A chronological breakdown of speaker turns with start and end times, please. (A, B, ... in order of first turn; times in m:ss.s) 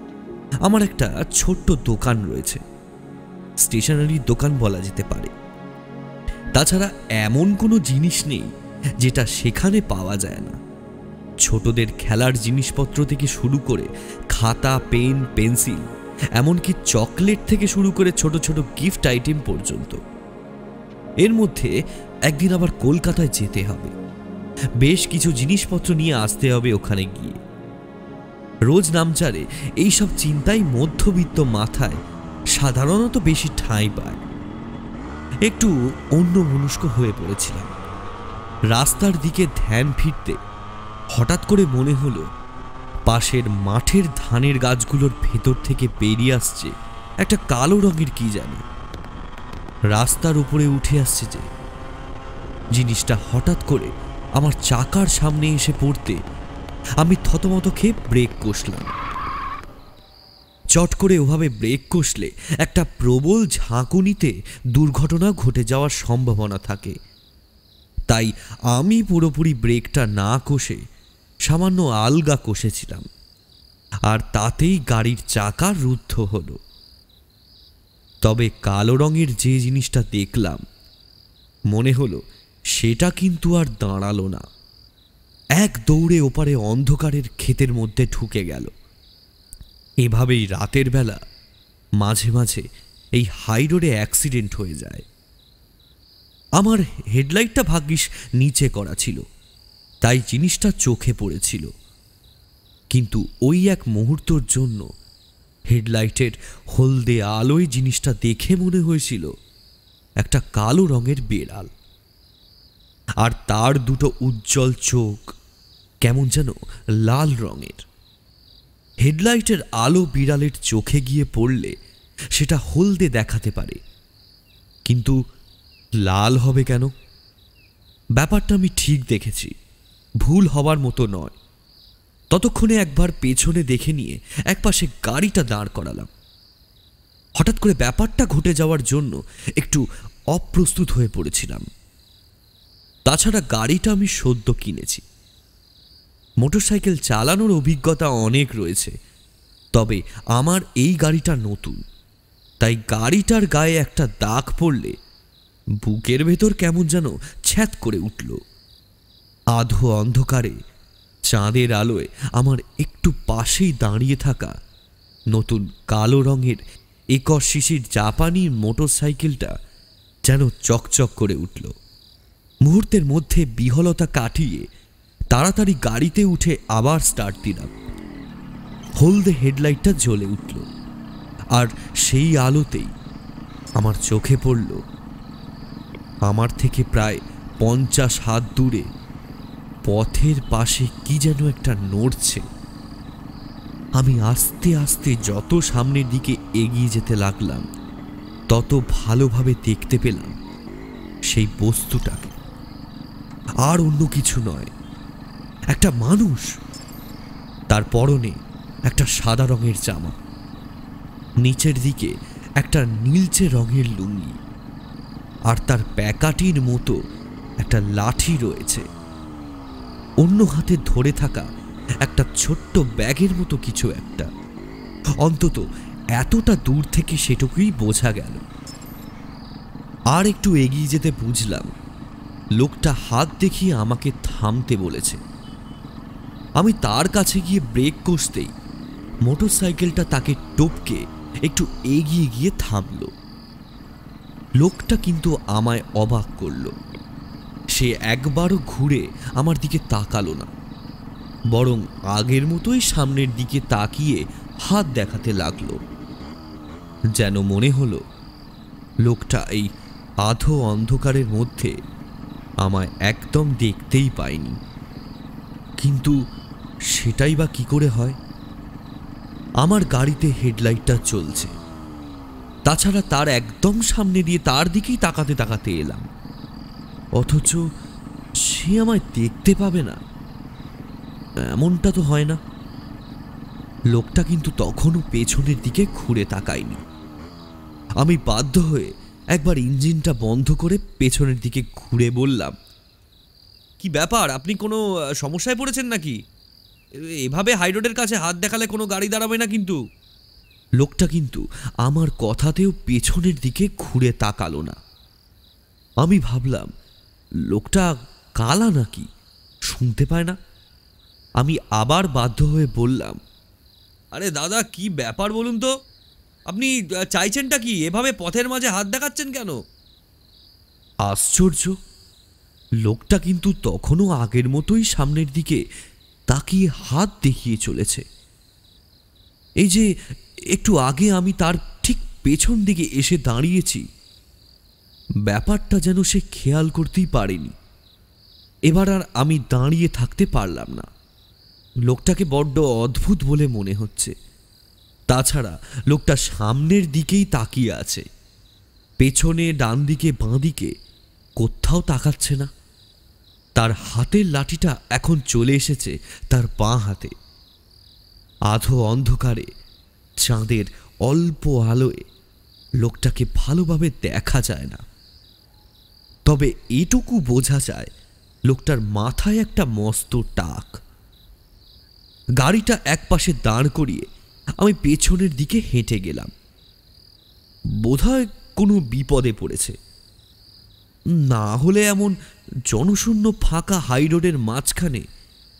0:00.6-0:02.6 A
0:03.6-0:05.3 A
0:06.6-0:08.5 A
0:09.0-0:10.6 A
0:11.4-0:15.8 A
0:16.4-0:20.0 A
0:21.2-0:21.7 A
0:22.3-0:23.9 A
0:24.8-0:27.4 A
0:28.7-0:32.0 A
0:32.5-0:34.2 A
0:35.5-0:37.7 A
0:38.7-0:40.4 A
0:41.1-0:42.2 A
0:43.1-0:48.6 A
0:49.9-0:51.4 A
0:52.7-0:56.2 A
0:57.0-0:58.9 A
1:00.7-1:07.0 A
1:08.1-1:10.8 A
1:11.4-1:13.1 A
1:14.1-1:16.6 A
1:18.2-1:20.6 A
1:21.7-1:22.2 A
1:22.7-1:24.4 A
1:25.6-1:28.7 A
1:30.0-1:31.2 A
1:32.0-1:32.6 A
1:33.2-1:35.0 A
1:36.6-1:39.2 A
1:40.0-1:41.7 A
1:42.9-1:44.8 A
1:45.7-1:49.3 A
1:50.2-1:51.7 A
1:53.2-1:55.3 A
1:56.0-1:57.8 A
1:59.0-2:01.7 A
2:02.3-2:03.8 A
2:04.8-2:05.2 A
2:06.0-2:06.9 A
2:08.2-2:09.5 A
2:10.2-2:11.4 A
2:12.3-2:16.1 A
2:17.4-2:21.6 A
2:23.1-2:25.0 A
2:26.4-2:28.9 A
2:29.7-2:31.8 A
2:32.6-2:35.0 A
2:35.8-2:38.4 A
2:39.5-2:40.6 A
2:41.3-2:44.5 A
2:45.3-2:46.6 A
2:47.1-2:49.5 A
2:50.3-2:51.7 A
2:52.6-2:54.6 A
2:55.3-2:57.7 A
2:59.0-3:00.6 A
3:01.5-3:02.9 A
3:03.8-3:04.8 A
3:06.3-3:08.9 A
3:09.8-3:12.4 A
3:14.0-3:17.6 A
3:18.5-3:20.4 A
3:21.3-3:22.3 A
3:23.6-3:24.7 A
3:25.7-3:26.5 A
3:27.7-3:28.4 A
3:28.9-3:30.2 A
3:31.4-3:34.4 A
3:35.5-3:37.0 A
3:37.6-3:38.8 A
3:40.2-3:41.5 A
3:42.0-3:44.3 A
3:45.2-3:45.6 A
3:46.2-3:48.4 A
3:50.1-3:51.7 A
3:52.6-3:55.2 A
3:56.6-3:58.5 A
3:59.2-4:03.1 A
4:04.6-4:06.7 A
4:07.7-4:10.5 A
4:11.5-4:15.8 A
4:17.2-4:18.0 A
4:19.0-4:19.7 A
4:20.2-4:21.7 A
4:22.6-4:24.6 A
4:25.8-4:26.2 A
4:26.9-4:28.2 A
4:29.6-4:31.5 A
4:32.7-4:36.0 A
4:37.2-4:37.6 A
4:38.5-4:40.0 A
4:41.6-4:42.4 A
4:43.9-4:46.8 A
4:48.0-4:52.6 A
4:53.8-4:56.2 A
4:57.2-4:59.8 A
5:00.8-5:04.8 A
5:06.0-5:06.7 A
5:07.5-5:09.1 A
5:09.6-5:10.4 A
5:11.4-5:13.2 A
5:14.1-5:15.7 A
5:16.5-5:19.6 A
5:21.0-5:21.8 A
5:22.8-5:25.6 A
5:26.3-5:28.0 A
5:29.6-5:29.9 A
5:30.5-5:33.8 A
5:35.3-5:37.5 A
5:38.7-5:40.9 A
5:41.9-5:44.1 A
5:45.1-5:48.0 A
5:49.0-5:50.7 A
5:51.4-5:52.5 A
5:53.6-5:57.1 A
5:58.5-5:59.5 A
6:00.2-6:02.0 A
6:02.8-6:04.8 A
6:06.3-6:07.9 A
6:08.5-6:10.8 A
6:12.4-6:14.0 A
6:14.6-6:16.3 A
6:17.8-6:19.7 A
6:21.2-6:22.2 A
6:22.7-6:25.0 A